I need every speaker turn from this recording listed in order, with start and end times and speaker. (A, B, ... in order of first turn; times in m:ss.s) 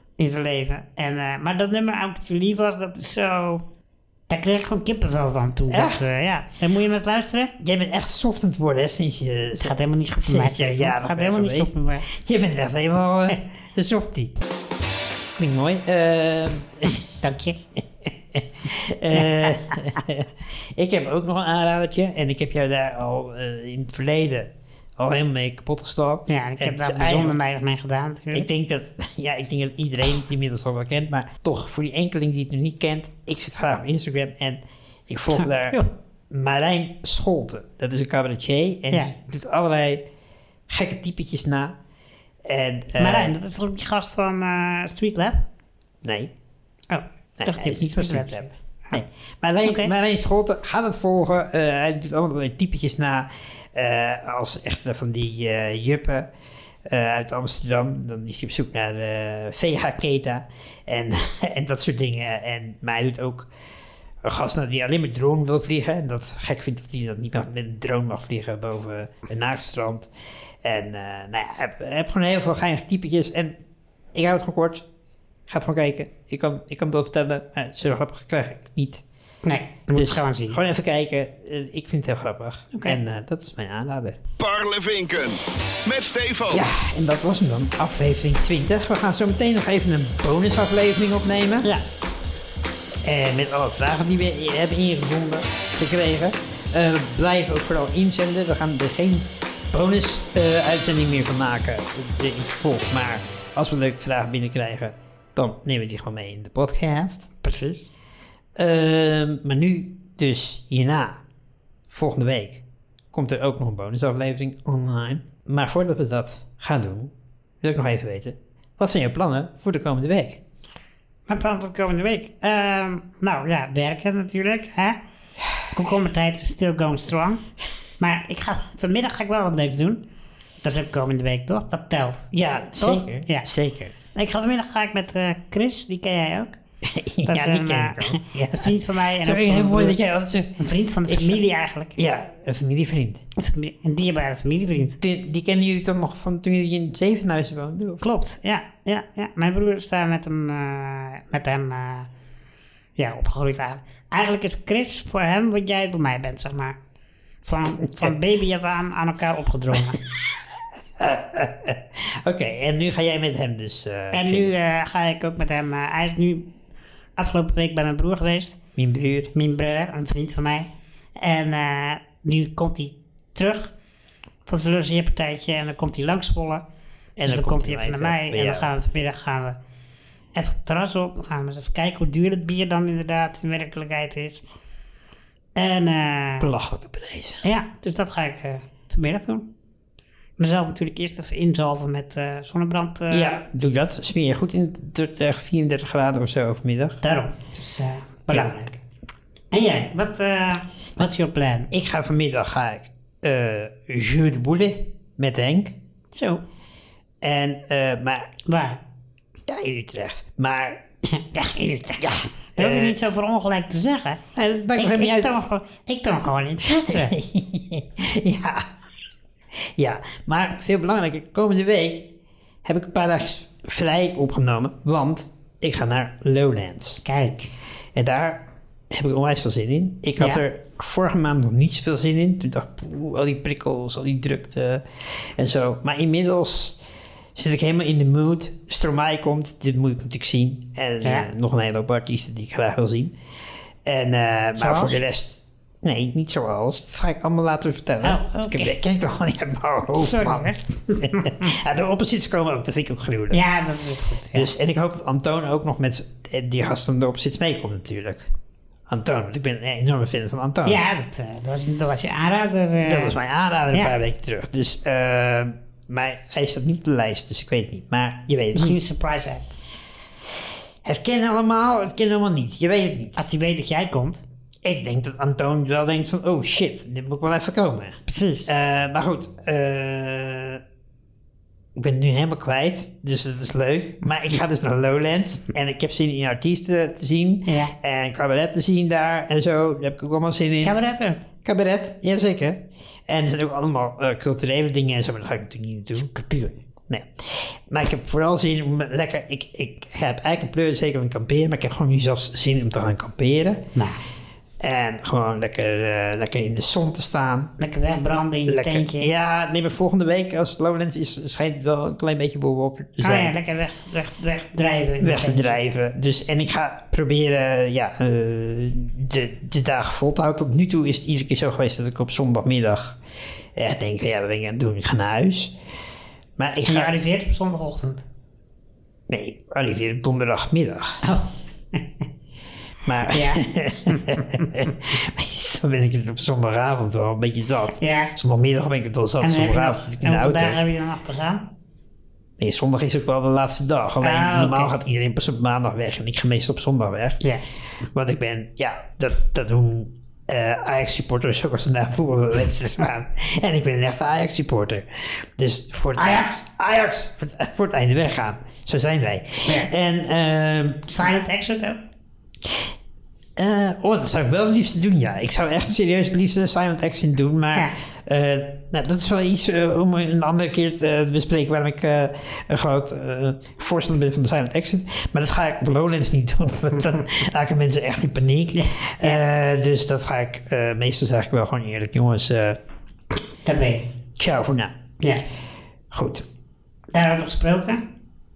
0:00.2-0:03.6 A
0:04.3-0:07.5 A
0:05.7-0:06.0 B
0:07.6-0:14.3 B
0:09.6-0:12.1 A
0:15.4-0:17.0 B
0:17.2-0:17.6 A
0:18.0-0:27.4 B
0:19.1-0:20.0 A
0:26.3-0:28.5 A
0:28.3-0:35.8 B
0:35.3-0:35.9 A
0:36.3-0:40.0 B
0:40.7-0:41.8 B
0:42.4-0:43.3 B
0:43.0-0:45.5 A
0:46.0-0:46.3 B
0:46.9-0:49.0 A
0:47.4-0:56.3 B
0:49.6-0:49.9 A
0:56.8-1:03.5 B
1:04.2-1:10.1 B
1:10.6-1:13.6 B
1:14.1-1:14.9 B
1:15.5-1:19.0 B
1:19.4-1:20.6 A
1:19.9-1:24.2 B
1:22.7-1:23.0 A
1:24.4-1:26.6 C
1:26.5-1:31.7 B
1:33.0-1:47.3 B
1:47.4-1:47.9 A
1:48.6-1:51.2 B
1:51.9-2:00.4 B
2:01.3-2:05.0 A
2:05.7-2:07.4 A
2:08.0-2:10.0 A
2:10.6-2:13.5 A
2:12.3-2:14.0 B
2:14.1-2:16.6 A
2:16.8-2:21.4 B
2:17.2-2:20.0 A
2:20.6-2:22.0 A
2:22.0-2:23.2 B
2:23.4-2:25.0 A
2:24.9-2:28.0 B
2:28.0-2:32.1 A
2:33.0-2:36.8 A
2:37.4-2:40.0 A
2:39.9-2:40.4 B
2:41.0-2:44.5 B
2:44.1-2:46.5 A
2:47.2-2:48.6 A
2:48.8-2:49.3 B
2:49.3-2:53.7 A
2:54.5-2:56.6 A
2:57.2-2:58.7 B
2:57.2-2:59.6 A
3:00.4-3:04.4 A
3:05.6-3:06.5 A
3:06.4-3:07.4 B
3:07.4-3:09.5 A
3:10.4-3:13.4 A
3:13.1-3:17.0 B
3:17.0-3:18.8 A
3:18.3-3:18.6 B
3:19.5-3:21.7 A
3:21.7-3:25.8 B
3:26.1-3:26.4 A
3:27.2-3:28.4 B
3:28.5-3:28.8 A
3:29.5-3:30.8 B
3:31.1-3:34.2 A
3:32.0-3:33.0 B
3:34.4-3:35.3 B
3:34.8-3:37.1 A
3:36.6-3:38.7 B
3:39.8-3:42.1 B
3:42.6-3:47.0 B
3:47.0-3:47.5 A
3:48.0-3:56.8 B
3:57.4-4:03.2 B
4:01.0-4:01.3 A
4:03.9-4:13.4 B
4:04.6-4:05.0 A
4:08.0-4:08.8 A
4:10.0-4:11.5 A
4:13.3-4:14.5 A
4:14.3-4:18.3 B
4:18.9-4:20.8 B
4:20.7-4:23.2 A
4:22.8-4:28.8 B
4:28.6-4:29.6 A
4:30.8-4:33.2 B
4:33.2-4:34.2 A
4:34.6-4:40.6 B
4:38.1-4:38.5 A
4:41.8-4:50.8 B
4:47.5-4:47.7 A
4:50.6-4:51.2 A
4:51.4-4:56.1 B
4:56.0-4:56.6 A
4:56.9-5:03.6 B
5:03.8-5:04.0 A
5:04.6-5:07.5 B
5:07.6-5:09.1 A
5:08.5-5:13.4 B
5:13.0-5:15.6 A
5:15.0-5:23.0 B
5:23.6-5:25.6 B
5:26.4-5:27.0 B
5:26.7-5:28.0 A
5:29.1-5:31.0 B
5:31.0-5:31.8 A
5:32.8-5:40.6 B
5:33.1-5:34.6 A
5:37.8-5:38.1 A
5:39.2-5:41.5 A
5:42.4-5:47.2 B
5:44.0-5:44.7 A
5:47.9-6:01.0 B
5:56.0-5:56.4 A
6:00.9-6:01.8 A
6:03.4-6:22.6 B
6:18.6-6:19.2 A
6:23.4-6:23.9 A
6:24.2-6:24.7 B
6:25.9-6:26.3 B
6:26.9-6:27.8 A